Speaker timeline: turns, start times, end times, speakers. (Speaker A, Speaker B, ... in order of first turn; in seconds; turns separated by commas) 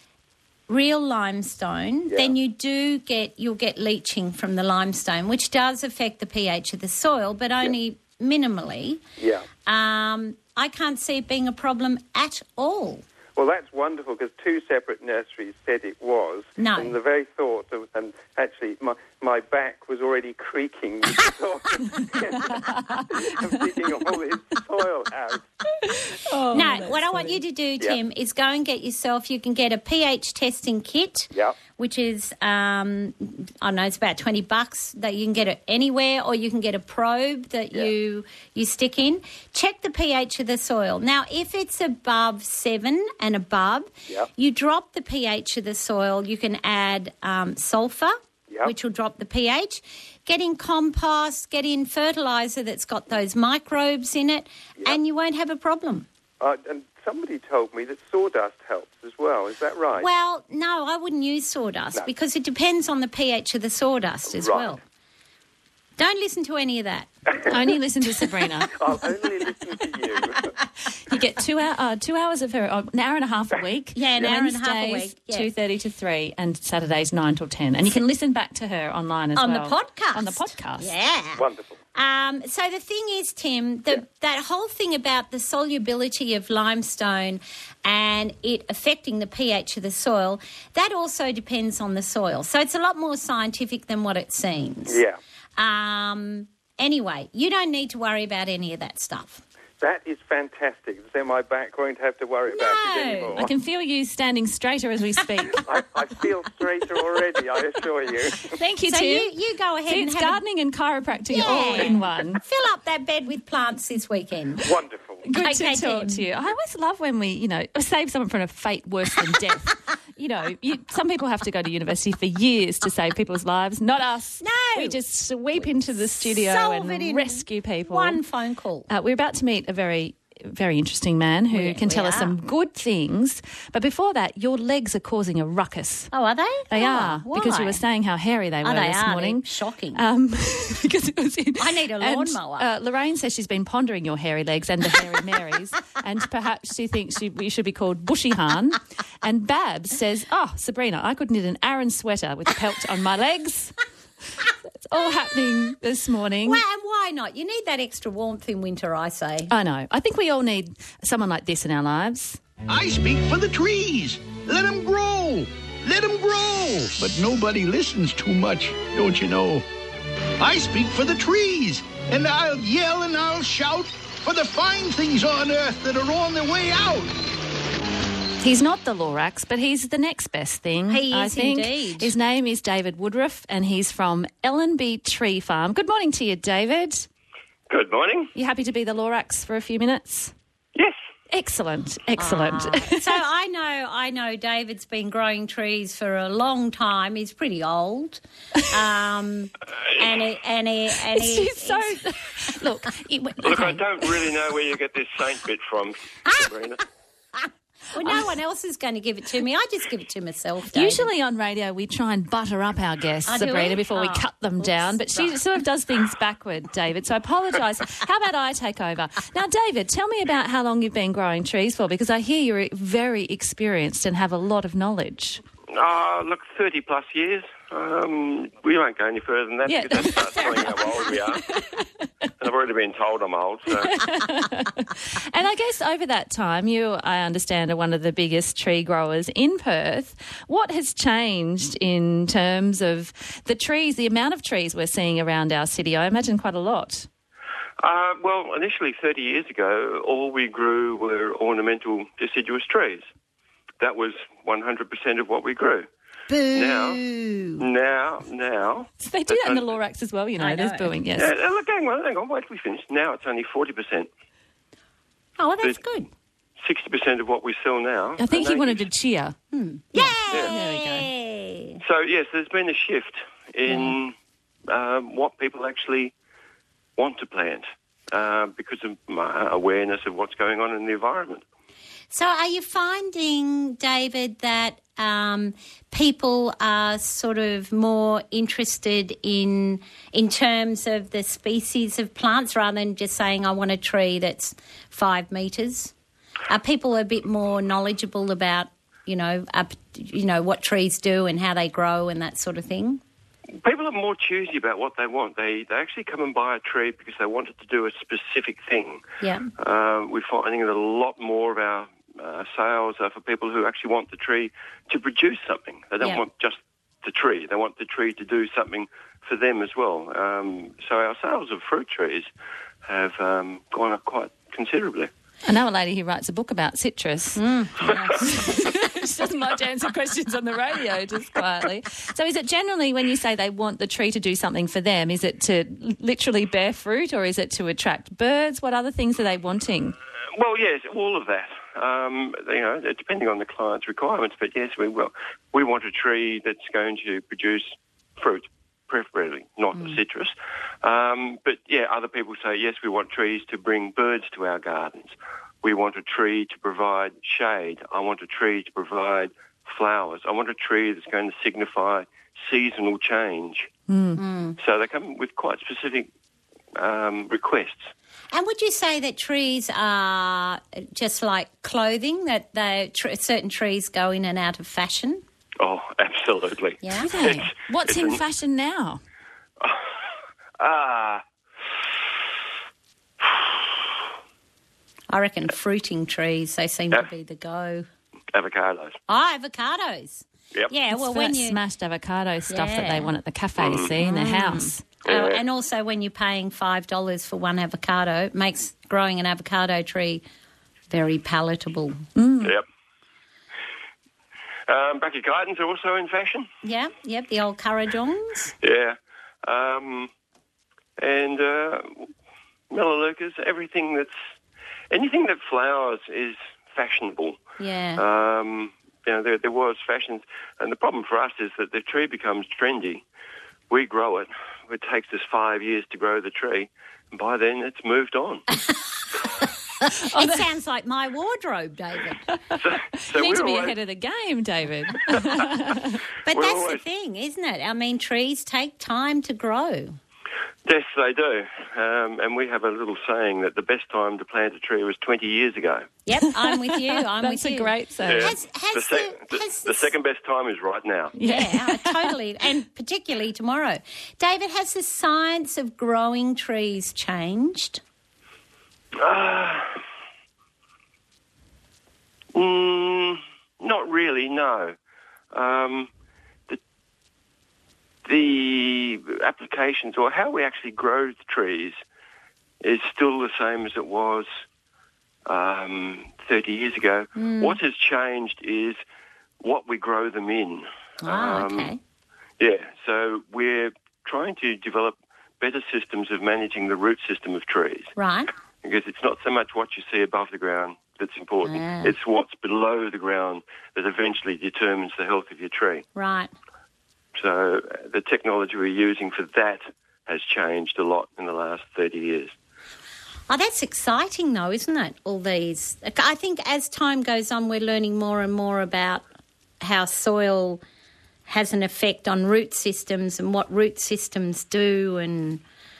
Speaker A: 0.7-9.0, Speaker B: 2.1-2.3, Speaker B: 9.2-9.5, Speaker A: 9.6-13.0, Speaker B: 13.3-25.4, Speaker A: 16.6-16.9, Speaker C: 22.5-23.6, Speaker C: 25.8-27.4, Speaker A: 26.5-56.1, Speaker B: 31.3-31.6, Speaker B: 56.4-60.1, Speaker A: 60.0-64.8, Speaker B: 64.3-64.8, Speaker A: 66.0-67.1, Speaker C: 67.5-68.8, Speaker B: 68.7-70.5, Speaker C: 71.1-80.9, Speaker A: 73.9-75.5, Speaker A: 79.3-95.0, Speaker B: 81.3-81.8, Speaker B: 94.9-95.2, Speaker A: 95.6-99.4, Speaker B: 99.8-103.5, Speaker A: 102.5-103.4, Speaker C: 103.3-105.6, Speaker B: 105.6-108.5, Speaker C: 108.5-109.3, Speaker A: 108.9-110.4, Speaker C: 109.9-112.4, Speaker A: 111.3-114.7, Speaker B: 114.6-115.2, Speaker C: 115.2-128.2, Speaker A: 115.4-116.3, Speaker A: 124.4-125.0, Speaker A: 125.5-128.9, Speaker C: 128.9-136.1, Speaker A: 131.5-132.3, Speaker A: 136.1-137.8, Speaker C: 136.7-153.8, Speaker A: 138.6-140.0, Speaker A: 141.6-142.7, Speaker C: 154.4-156.6, Speaker A: 156.4-159.5, Speaker C: 159.5-162.4, Speaker D: 162.7-169.6, Speaker D: 170.4-177.1, Speaker C: 178.4-187.1, Speaker A: 180.9-182.1, Speaker E: 187.7-188.3, Speaker C: 188.3-190.3, Speaker C: 191.3-193.2, Speaker A: 192.2-202.0, Speaker C: 201.0-204.3, Speaker E: 203.4-206.8, Speaker A: 207.9-211.1, Speaker C: 210.7-225.4, Speaker A: 213.2-215.4, Speaker E: 225.7-231.4, Speaker C: 229.7-232.0, Speaker E: 232.4-233.9, Speaker C: 233.8-247.1, Speaker E: 247.8-253.0, Speaker E: 253.8-255.9, Speaker A: 256.3-257.6, Speaker E: 256.5-257.0, Speaker E: 257.6-259.7, Speaker C: 259.0-261.3, Speaker A: 260.4-260.9, Speaker E: 261.1-264.1, Speaker A: 265.4-266.1, Speaker E: 266.6-268.8, Speaker C: 268.2-269.3, Speaker A: 269.5-271.8, Speaker C: 269.9-271.1, Speaker E: 271.8-274.1, Speaker A: 273.7-273.9, Speaker E: 274.7-276.1, Speaker E: 277.0-281.4, Speaker A: 282.1-295.9, Speaker A: 296.5-303.0, Speaker E: 303.6-309.0, Speaker A: 309.2-309.5, Speaker E: 309.6-322.3, Speaker E: 322.9-325.1, Speaker C: 325.4-327.4, Speaker A: 327.4-328.6, Speaker C: 328.2-339.9, Speaker E: 340.4-363.7, Speaker C: 363.9-364.2, Speaker A: 364.2-364.6, Speaker E: 364.6-366.1, Speaker E: 366.8-367.9, Speaker A: 368.3-375.2, Speaker E: 375.6-378.2, Speaker A: 376.8-377.1, Speaker C: 376.9-379.0, Speaker E: 379.6-379.9, Speaker E: 380.6-381.2, Speaker A: 385.1-387.9, Speaker E: 388.3-389.0, Speaker A: 389.1-391.6, Speaker C: 390.9-395.0, Speaker A: 392.5-393.1, Speaker E: 393.6-393.9, Speaker A: 394.0-400.2, Speaker E: 395.0-395.4, Speaker A: 400.9-402.0, Speaker C: 402.1-402.6, Speaker E: 404.7-406.5, Speaker A: 406.6-408.5, Speaker E: 408.6-410.1, Speaker E: 411.0-412.1, Speaker E: 412.7-414.1, Speaker E: 414.9-417.4, Speaker A: 417.6-418.0, Speaker E: 417.9-423.0, Speaker E: 423.7-428.4, Speaker C: 430.1-430.5, Speaker A: 430.1-432.2, Speaker C: 432.3-436.0, Speaker E: 432.6-433.8, Speaker A: 436.2-440.0, Speaker E: 436.3-436.8, Speaker E: 440.6-446.0, Speaker A: 446.1-449.9, Speaker C: 446.2-448.4, Speaker E: 448.0-451.1, Speaker C: 451.1-452.1, Speaker A: 451.2-457.8, Speaker E: 459.0-459.7, Speaker E: 462.3-464.7, Speaker E: 465.3-465.9, Speaker E: 468.1-471.8, Speaker E: 472.6-474.4, Speaker E: 475.3-478.8, Speaker A: 477.1-477.6, Speaker E: 479.4-481.7, Speaker A: 481.0-481.8, Speaker E: 482.4-487.9, Speaker A: 487.9-488.3, Speaker E: 488.6-495.8, Speaker A: 491.4-491.9, Speaker A: 495.9-496.3, Speaker E: 497.1-502.3, Speaker A: 503.3-509.0, Speaker A: 509.6-510.6, Speaker A: 511.3-515.4